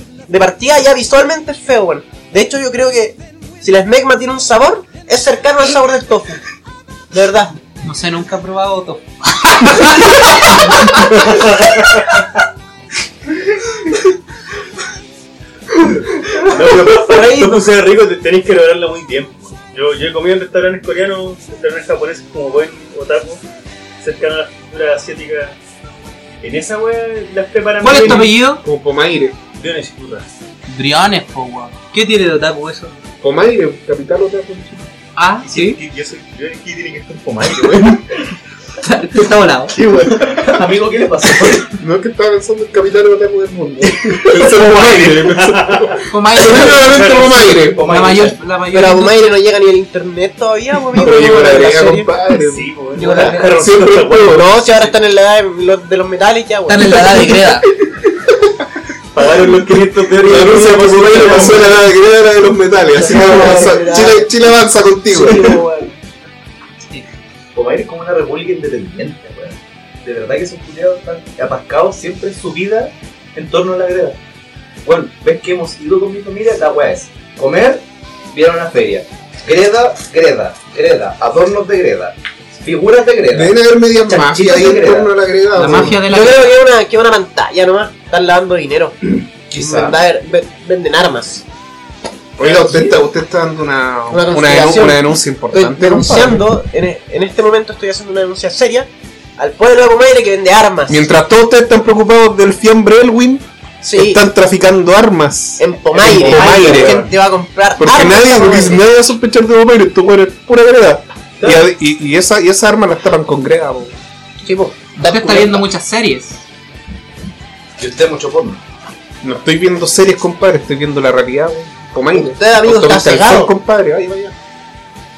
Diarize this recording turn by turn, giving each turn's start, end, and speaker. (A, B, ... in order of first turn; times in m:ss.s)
0:00.3-0:06.5 A
0:07.1-0:07.5 A
0:07.8-0:11.0 B
0:11.0-0:12.2 C
0:16.0-0:23.4 C
0:17.1-0:17.5 B
0:24.0-0:25.6 C
0:26.4-0:28.4 C
0:27.8-0:28.6 B
0:28.6-0:29.4 D
0:29.5-0:30.3 C
0:30.7-0:32.9 B
0:33.2-0:34.8 D
0:35.2-0:35.8 B
0:35.4-0:38.3 C
0:38.8-0:39.8 B
0:39.7-0:40.6 C
0:40.2-0:41.7 E
0:41.8-0:47.8 D
0:44.0-0:46.0 C
0:46.1-0:47.2 B
0:46.7-0:47.5 C
0:47.4-0:48.4 E
0:47.8-0:49.2 B
0:48.7-0:52.1 A
0:50.9-0:52.7 D
0:52.4-0:54.8 C
0:52.9-0:53.5 B
0:53.0-0:53.4 A
0:53.5-0:54.5 D
0:54.2-0:57.4 A
0:56.7-0:57.6 B
0:59.1-1:01.8 C
1:00.2-1:05.6 D
1:02.9-1:04.6 A
1:05.1-1:05.9 A
1:07.5-1:14.2 E
1:14.8-1:25.1 E
1:23.3-1:26.0 D
1:25.6-1:26.5 B
1:25.7-1:29.0 A
1:29.5-1:30.0 E
1:29.6-1:31.4 A
1:32.4-1:36.5 D
1:32.4-1:33.0 E
1:34.1-1:41.0 A
1:40.9-1:47.0 D
1:43.8-1:44.2 A
1:45.6-1:48.8 A
1:46.1-1:47.1 C
1:47.8-1:53.9 D
1:51.4-1:51.7 E
1:54.4-1:55.6 A
1:55.0-1:56.4 B
1:57.8-1:58.6 E
1:59.2-2:04.3 D
2:02.1-2:03.5 A